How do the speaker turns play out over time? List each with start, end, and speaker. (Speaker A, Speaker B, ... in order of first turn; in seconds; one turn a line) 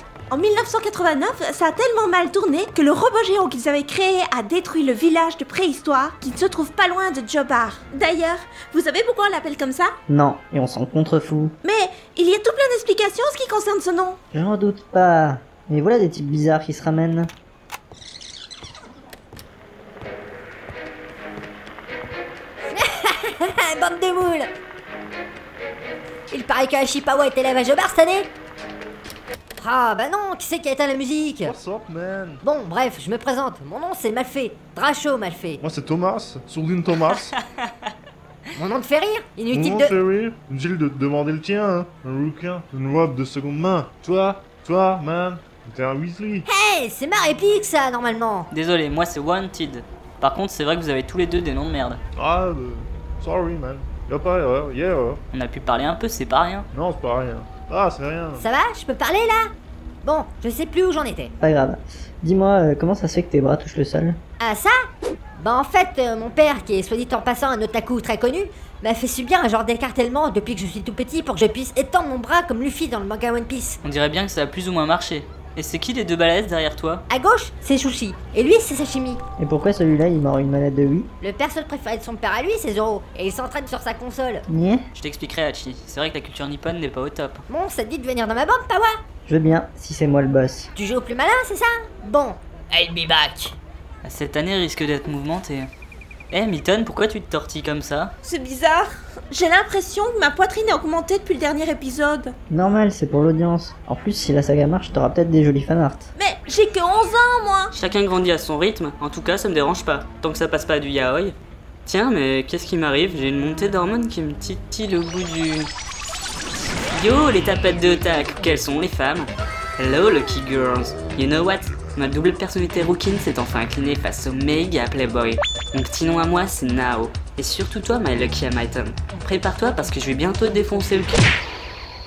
Speaker A: 0.3-9.9
Speaker B: 10.1-11.6
Speaker A: 11.6-14.2
Speaker B: 14.3-17.3
Speaker C: 22.7-24.5
Speaker C: 26.3-28.3
Speaker C: 29.6-31.5
Speaker D: 31.4-32.4
Speaker C: 32.4-35.6
Speaker D: 35.6-37.3
Speaker E: 37.1-37.6
Speaker C: 38.6-40.0
Speaker D: 39.5-46.5
Speaker C: 46.5-48.5
Speaker E: 48.5-52.0
Speaker D: 52.1-55.2
Speaker E: 55.3-56.7
Speaker D: 56.7-58.5
Speaker C: 58.4-59.5
Speaker C: 60.0-61.3
Speaker B: 61.4-64.2
Speaker C: 64.4-64.8
Speaker C: 65.4-73.8
Speaker E: 73.8-77.0
Speaker C: 77.1-79.2
Speaker B: 79.4-81.1
Speaker C: 81.2-84.4
Speaker B: 84.5-84.8
Speaker E: 85.0-87.4
Speaker C: 87.5-89.0
Speaker B: 89.3-90.7
Speaker C: 90.8-92.4
Speaker E: 94.0-95.7
Speaker E: 96.3-98.2
Speaker A: 98.2-102.3
Speaker B: 102.5-106.1
Speaker A: 106.2-107.8
Speaker E: 107.8-115.7
Speaker E: 116.9-131.2